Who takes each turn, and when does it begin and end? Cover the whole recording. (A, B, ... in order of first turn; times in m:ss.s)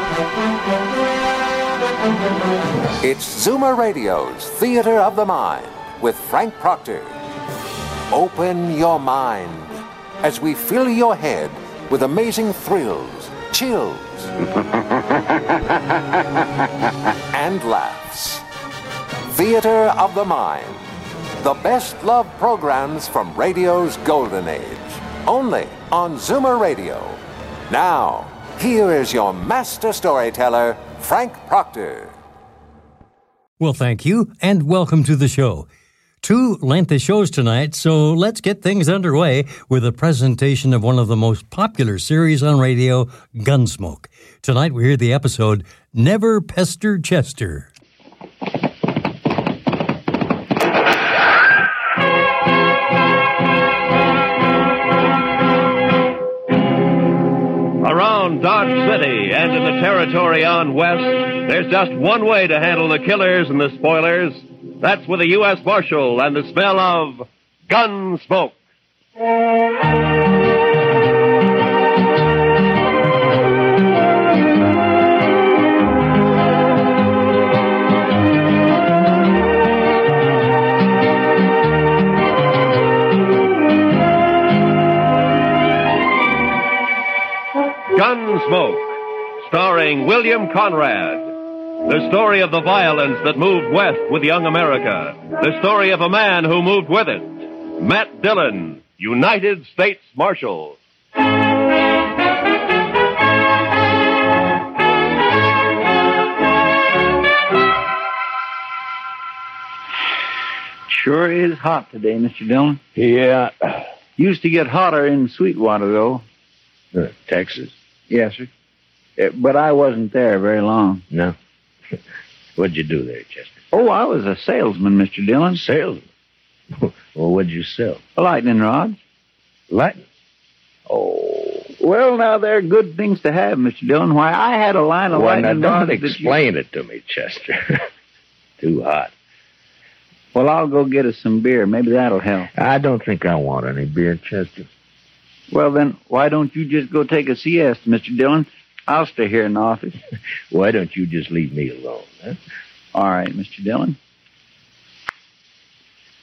0:03.0-0:07.2 A
0:08.1-0:14.3 A
0:17.3-0:18.4 A
0:19.3-0:32.2 A
0:33.6-0:35.7 B
0:36.2-0:47.7 B
0:57.8-1:08.6 C
1:27.9-1:28.8 C
1:29.4-1:31.3 C
1:31.8-1:40.8 C
1:50.9-1:52.8 D
1:52.9-1:53.8 E
1:54.2-1:56.2 D
1:56.9-1:57.7 E
1:58.1-1:58.5 D
1:59.2-2:01.0 D
2:01.1-2:01.4 E
2:02.6-2:03.6 E
2:03.7-2:05.6 D
2:05.5-2:06.1 E
2:06.7-2:08.0 E
2:08.2-2:09.0 D
2:09.7-2:10.0 E
2:10.9-2:11.7 E
2:11.8-2:16.4 D
2:15.1-2:17.8 E
2:18.6-2:19.1 E
2:20.3-2:22.5 D
2:22.5-2:24.7 E
2:25.5-2:30.0 D
2:30.5-2:32.4 E
2:32.9-2:34.0 D